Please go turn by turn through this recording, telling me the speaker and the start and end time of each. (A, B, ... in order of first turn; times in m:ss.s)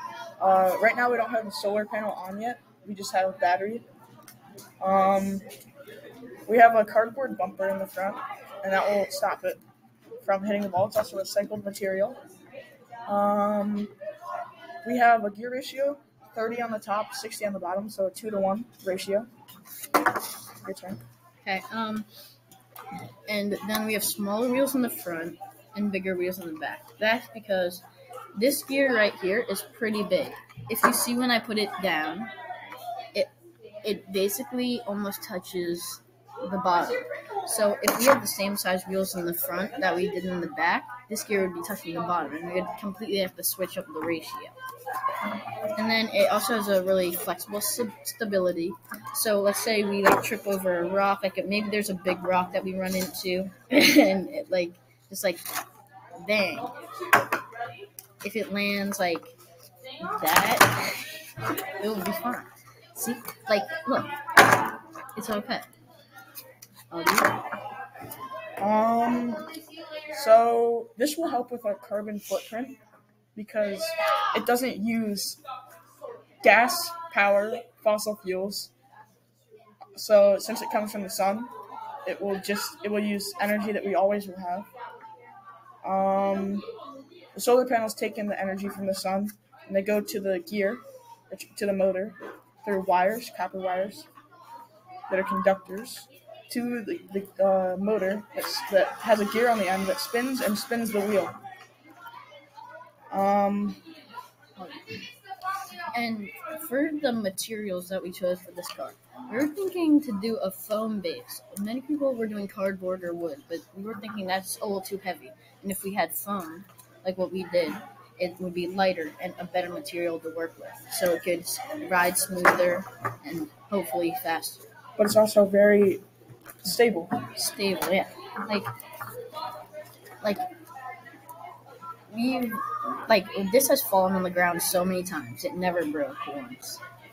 0:00.4-0:03.8 A
0:04.8-0:05.5 A
0:06.5-0:09.6 A
0:10.2-0:12.2 A
0:13.1-0:13.9 A
0:14.8-0:19.3 A
0:20.6-0:21.0 A
0:21.4-0:22.1 B
0:23.3-0:32.3 B
0:33.8-0:44.6 B
0:45.8-0:55.4 B
0:56.2-0:56.8 B
0:58.2-0:59.3 B
1:00.0-1:04.2 B
1:05.2-1:05.7 B
1:06.9-1:07.4 B
1:08.6-1:09.5 A
1:10.1-1:12.8 A
1:13.3-1:15.4 A
1:16.4-1:18.7 A
1:20.0-1:21.5 A
1:22.0-1:24.7 A
1:25.8-1:26.7 A
1:27.3-1:34.1 A
1:35.1-1:41.4 A
1:43.1-1:43.8 A
1:44.6-1:45.0 B
1:45.9-2:04.7 B
2:05.0-2:06.0 A
2:06.6-2:07.2 A
2:07.3-2:08.7 B
2:12.1-2:16.8 B